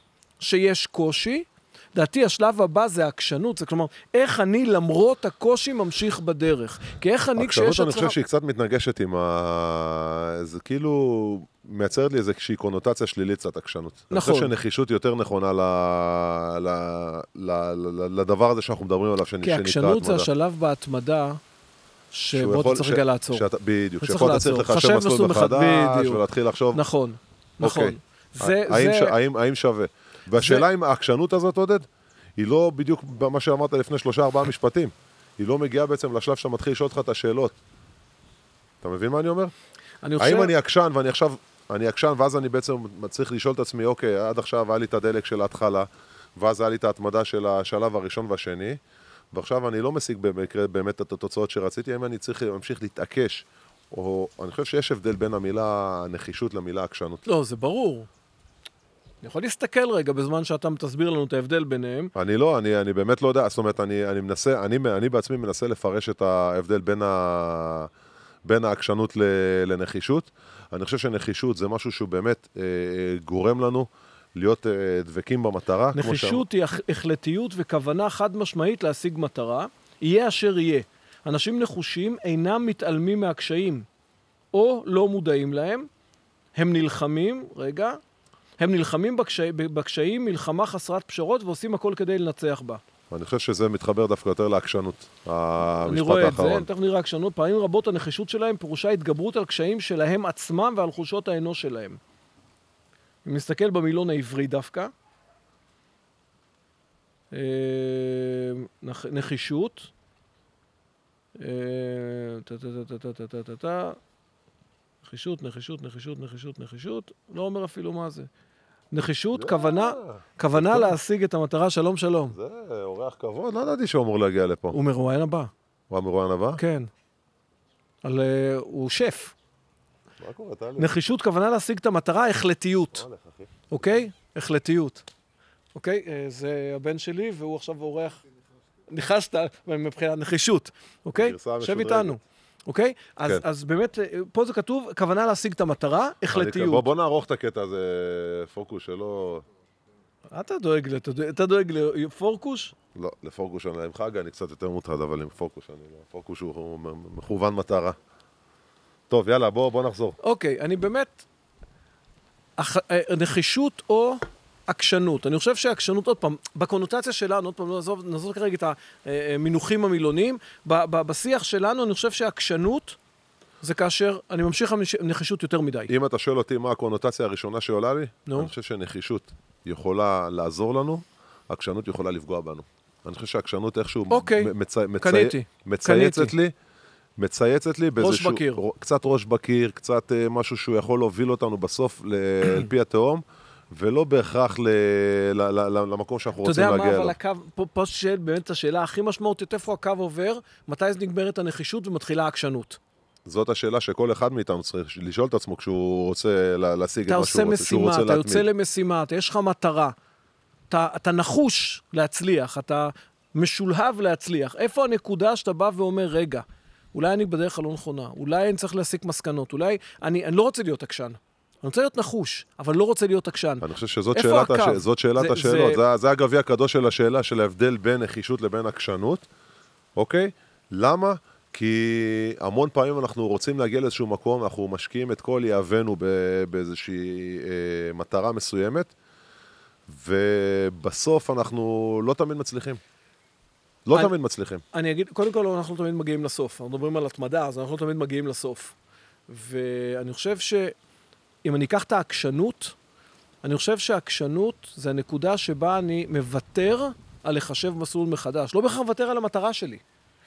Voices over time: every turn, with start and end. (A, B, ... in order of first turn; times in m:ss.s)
0:00.4-0:08.2 A
0:07.4-0:20.3 B
0:14.1-0:14.5 A
0:19.4-0:21.4 A
0:22.1-0:23.5 A
0:22.3-0:26.8 B
0:24.0-0:29.2 A
0:27.6-0:37.6 B
0:30.4-0:30.7 A
0:38.8-0:39.5 B
0:40.0-0:40.5 A
0:40.2-0:48.8 B
0:49.3-0:57.2 B
0:57.2-0:58.1 A
0:59.2-1:02.1 A
1:02.2-1:07.9 B
1:08.4-1:16.5 B
1:15.9-1:23.9 A
1:24.5-1:25.9 A
1:26.6-1:28.0 A
1:28.6-1:32.8 A
1:33.1-1:36.7 B
1:35.8-1:42.0 A
1:43.2-1:44.9 A
1:47.3-1:49.9 A
1:51.4-1:54.0 A
1:55.0-1:58.3 A
1:58.9-2:02.4 A
1:59.3-2:00.9 B
2:02.3-2:04.8 B
2:04.7-2:05.5 A
2:05.9-2:06.6 B
2:06.6-2:06.9 A
2:08.0-2:09.3 A
2:10.2-2:10.9 B
2:10.8-2:13.1 A
2:12.9-2:13.6 B
2:13.7-2:15.0 A
2:15.8-2:18.2 A
2:18.9-2:26.9 A
2:21.2-2:22.2 B
2:26.3-2:29.4 B
2:30.3-2:32.7 A
2:33.0-2:38.0 B
2:39.1-2:40.2 B
2:40.2-2:41.2 A
2:42.6-2:53.0 A
2:53.6-2:55.9 A
2:55.9-3:06.5 B
3:04.1-3:06.3 A
3:07.2-3:17.2 B
3:08.0-3:08.6 A
3:16.4-3:22.8 A
3:23.3-3:28.5 B
3:27.1-3:30.0 A
3:30.7-3:45.8 A
3:43.6-3:49.3 B
3:50.0-3:58.9 B
3:59.9-4:02.8 B
4:03.8-4:04.6 B
4:04.7-4:08.7 A
4:09.3-4:10.8 A
4:11.4-4:12.8 A
4:13.4-4:19.8 A